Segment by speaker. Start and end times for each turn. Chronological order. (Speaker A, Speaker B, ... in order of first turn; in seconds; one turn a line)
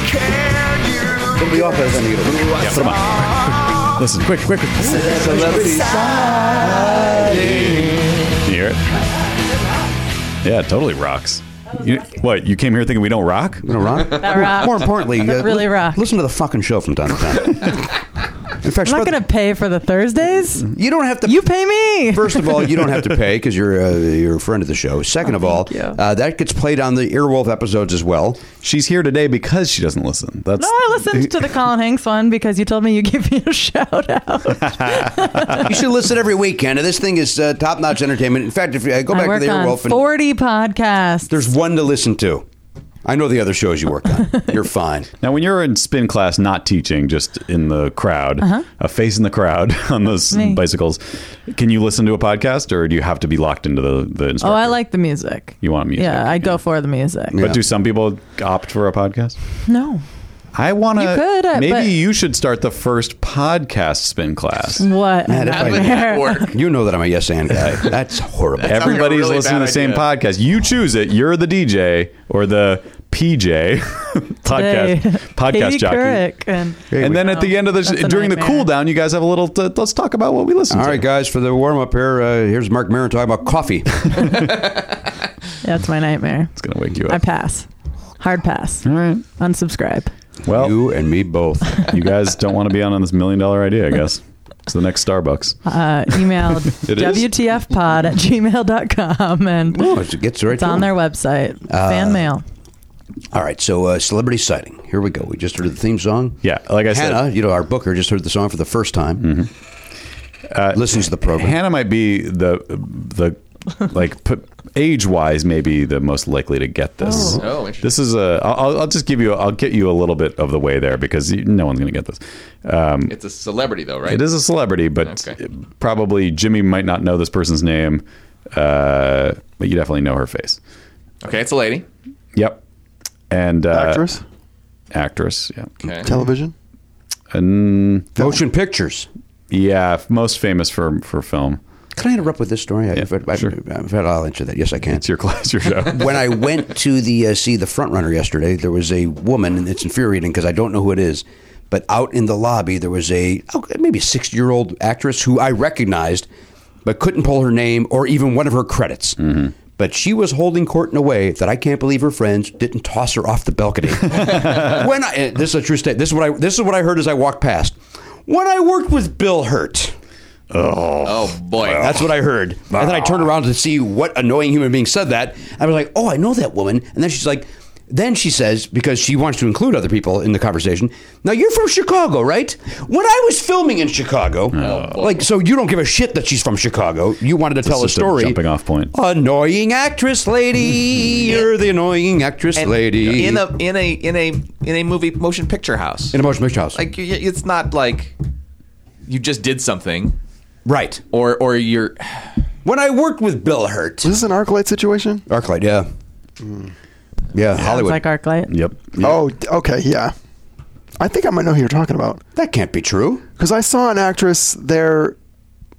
Speaker A: 0.3-3.2
Speaker B: 2.6-5.4
Speaker A: 4.8-8.0
Speaker C: 5.2-7.9
Speaker B: 8.4-8.8
Speaker B: 10.4-13.9
Speaker A: 13.6-18.0
Speaker D: 14.1-16.0
Speaker A: 18.5-19.2
Speaker D: 18.8-20.7
Speaker A: 20.7-21.5
Speaker D: 21.2-22.8
Speaker A: 22.1-28.4
Speaker D: 25.2-26.0
Speaker B: 28.6-31.3
Speaker D: 30.6-35.7
Speaker B: 34.6-35.6
Speaker A: 35.5-40.0
Speaker D: 39.1-41.3
Speaker A: 41.3-42.5
Speaker A: 43.0-45.1
Speaker B: 45.2-54.8
Speaker D: 48.4-48.6
Speaker D: 50.3-50.6
Speaker D: 54.4-57.4
Speaker B: 55.6-56.6
Speaker A: 57.3-57.6
Speaker B: 57.3-59.4
Speaker D: 59.6-60.0
Speaker B: 60.5-64.9
Speaker D: 61.0-62.0
Speaker D: 64.8-66.5
Speaker A: 65.3-68.8
Speaker C: 65.5-66.5
Speaker C: 68.5-70.1
Speaker B: 68.6-76.3
Speaker D: 74.5-78.7
Speaker A: 76.9-77.2
Speaker B: 76.9-81.0
Speaker A: 80.7-84.5
Speaker D: 85.6-86.5
Speaker B: 86.5-87.2
Speaker D: 87.0-87.7
Speaker D: 88.2-90.1
Speaker B: 88.8-89.2
Speaker B: 90.4-90.8
Speaker A: 90.5-91.9
Speaker B: 91.8-95.6
Speaker D: 95.7-99.9
Speaker B: 96.8-97.2
Speaker A: 96.9-97.2
Speaker A: 99.7-100.9
Speaker D: 100.5-102.4
Speaker A: 101.7-102.2
Speaker A: 103.3-109.3
Speaker B: 106.4-107.3
Speaker B: 109.2-109.5
Speaker B: 110.5-123.2
Speaker A: 110.7-111.5
Speaker C: 117.1-118.0
Speaker C: 123.1-124.2
Speaker B: 124.0-130.6
Speaker C: 125.0-125.3
Speaker C: 131.2-131.8
Speaker B: 132.3-132.6
Speaker B: 133.3-134.1
Speaker E: 133.7-134.2
Speaker B: 134.9-135.7
Speaker C: 135.8-136.1
Speaker E: 136.0-136.5
Speaker B: 137.3-138.1
Speaker A: 138.2-139.1
Speaker B: 139.5-141.6
Speaker A: 141.9-145.0
Speaker B: 142.9-143.5
Speaker B: 144.9-146.4
Speaker A: 145.8-156.3
Speaker A: 156.8-169.9
Speaker B: 159.2-159.5
Speaker B: 164.2-164.7
Speaker B: 170.5-172.0
Speaker C: 171.0-172.0
Speaker A: 171.7-188.4
Speaker B: 172.7-173.2
Speaker B: 184.5-184.9
Speaker C: 184.6-185.3
Speaker B: 187.6-188.9
Speaker A: 188.9-193.4
Speaker C: 192.6-196.2
Speaker A: 196.1-196.8
Speaker C: 196.7-198.2
Speaker C: 199.1-200.2
Speaker A: 200.7-201.0
Speaker C: 201.1-202.3
Speaker A: 202.6-204.1
Speaker E: 204.0-205.2
Speaker A: 205.3-205.9
Speaker E: 206.4-206.7
Speaker A: 207.3-208.0
Speaker D: 207.5-208.5
Speaker B: 208.5-209.1
Speaker E: 209.0-210.1
Speaker E: 211.0-212.2
Speaker A: 212.3-213.2
Speaker E: 213.4-215.2